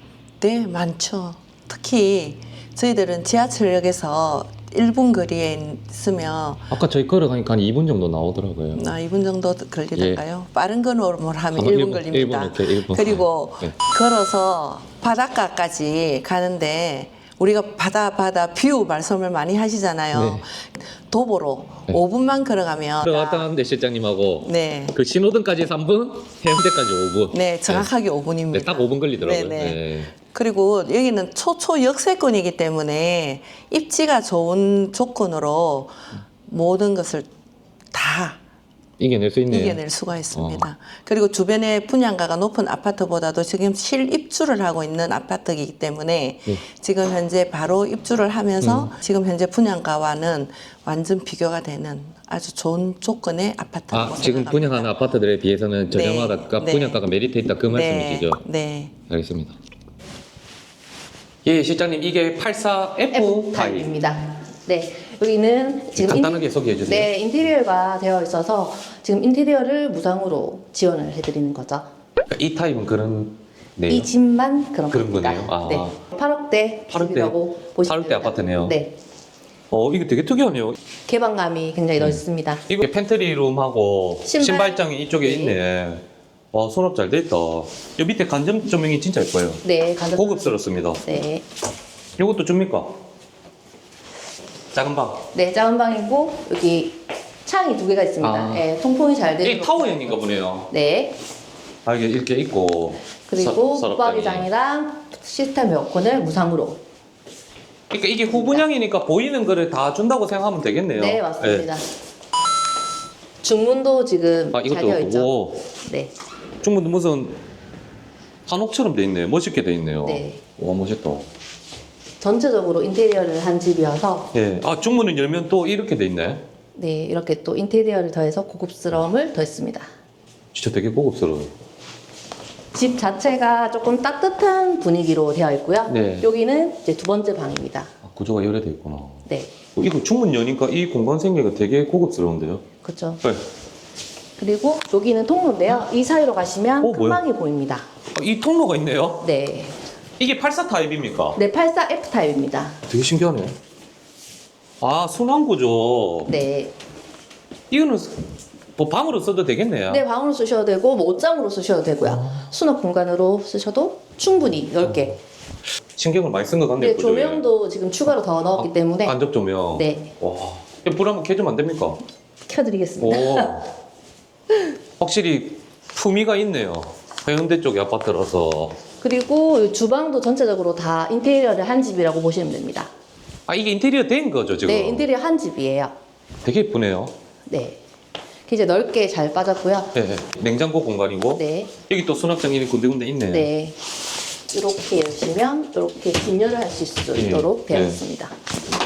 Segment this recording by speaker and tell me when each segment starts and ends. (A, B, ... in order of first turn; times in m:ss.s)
0:00.4-0:06.7 A
0:06.7-0:08.9 B
0:08.7-0:23.5 A
0:09.9-0:10.2 B
0:11.5-0:13.7 B
0:20.1-0:20.4 B
0:23.0-0:27.9 B
0:24.4-0:25.0 A
0:27.3-0:37.3 A
0:28.5-0:30.1 B
0:37.9-0:38.4 A
0:39.0-0:39.8 B
0:39.5-0:54.9 A
0:40.3-0:40.7 B
0:48.6-0:48.9 B
0:53.9-0:58.4 B
0:55.9-0:57.0 A
0:57.7-0:59.0 A
0:59.1-0:59.5 B
1:01.4-1:03.9 B
1:03.1-1:11.9 C
1:05.9-1:07.1 B
1:12.3-1:14.1 B
1:13.9-1:18.9 C
1:14.9-1:16.0 B
1:16.9-1:18.8 B
1:19.7-1:20.8 B
1:21.0-1:22.6 C
1:22.0-1:29.6 B
1:24.2-1:25.6 C
1:29.6-1:31.4 C
1:30.2-1:31.0 B
1:32.2-1:32.9 B
1:34.7-1:35.2 B
1:35.3-1:41.2 C
1:38.2-1:38.7 B
1:39.4-1:40.7 B
1:41.8-1:44.5 B
1:43.3-1:46.8 C
1:47.9-1:51.7 B
1:48.3-1:48.6 C
1:50.9-1:51.8 C
1:53.4-1:55.3 C
1:54.5-1:55.6 B
1:55.8-1:56.1 C
1:56.6-1:57.4 B
1:58.5-2:01.3 B
2:00.0-2:00.4 C
2:02.2-2:04.3 C
2:04.3-2:06.4 B
2:06.8-2:09.9 C
2:10.5-2:11.5 B
2:12.7-2:17.9 C
2:15.9-2:16.3 B
2:18.0-2:22.6 B
2:19.3-2:19.5 C
2:22.8-2:23.2 C
2:24.4-2:27.8 C
2:26.8-2:27.2 B
2:28.1-2:29.2 B
2:29.2-2:29.8 C
2:30.2-2:31.4 B
2:31.3-2:32.8 C
2:32.9-2:33.6 B
2:34.8-2:36.3 B
2:36.3-2:36.7 C
2:37.7-2:38.2 B
2:38.8-2:40.0 B
2:39.9-2:45.2 C
2:42.0-2:42.5 B
2:46.0-2:47.4 B
2:46.8-2:49.1 C
2:48.5-2:52.0 B
2:49.7-2:50.1 C
2:52.5-2:53.5 C
2:53.0-2:53.7 B
2:55.0-2:58.8 B
2:59.0-3:02.9 C
3:03.5-3:05.0 B
3:04.6-3:05.9 C
3:06.4-3:07.1 B
3:07.5-3:07.8 C
3:08.5-3:09.9 C
3:09.9-3:13.5 B
3:11.3-3:11.7 C
3:13.3-3:13.8 C
3:14.5-3:18.3 C
3:17.1-3:18.0 B